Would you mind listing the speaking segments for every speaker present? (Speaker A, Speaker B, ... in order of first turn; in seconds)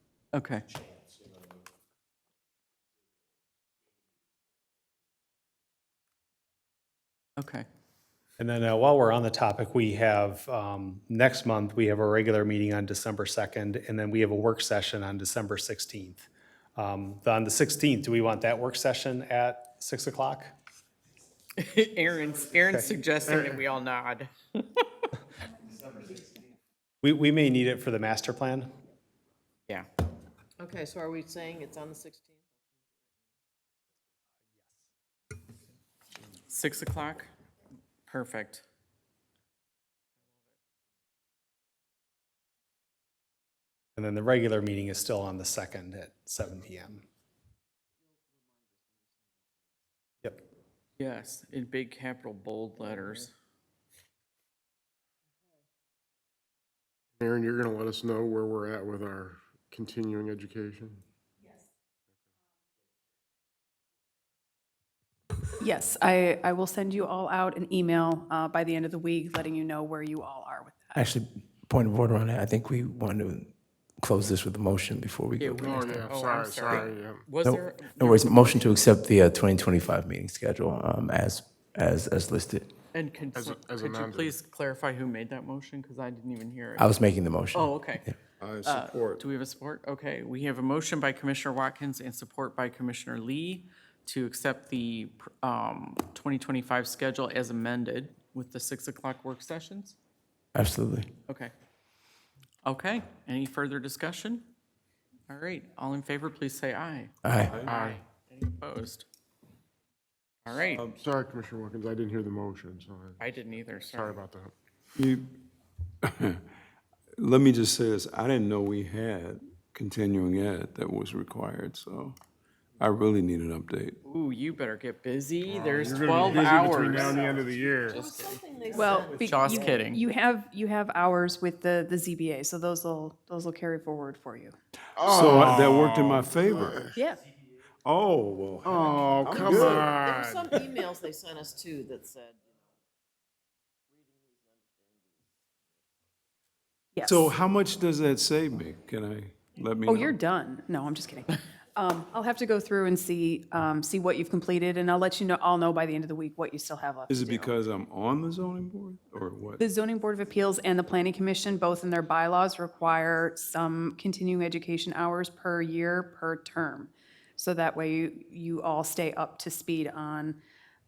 Speaker A: 0.3-0.6, 7.4-7.7, 21.6-25.1, 36.5-37.3, 38.1-38.6, 51.0-53.3, 75.4-78.9, 82.9-87.0, 87.5-88.1, 88.7-100.0, 102.7-104.4, 105.3-107.1, 107.7-109.1, 110.5-110.9, 113.2-114.2, 124.1-128.4, 129.2-130.0
Speaker B: 8.4-20.5, 22.6-23.3, 27.0-28.7, 44.0-47.0
Speaker C: 30.6-32.5, 126.9-129.8, 139.3-142.5, 144.0-145.1
Speaker D: 57.2-61.0, 75.6-77.3, 83.3-84.3, 107.7-108.0, 111.0-113.2, 113.8-114.5, 125.5-128.1, 135.0-136.9, 138.6-140.5
Speaker E: 65.6-71.0, 128.7-134.5, 136.9-137.2, 146.9-147.3, 149.8-157.5, 159.6-170.4
Speaker F: 71.0-76.1, 77.4-82.7, 86.8-88.0, 100.5-101.1, 107.2-107.5
Speaker G: 88.4-89.2, 107.4-107.8, 110.7-111.0, 115.0-115.3, 116.0-116.4, 117.2-122.2, 122.8-124.0, 135.0-136.9, 137.8-139.8, 147.0-150.2, 157.1-159.7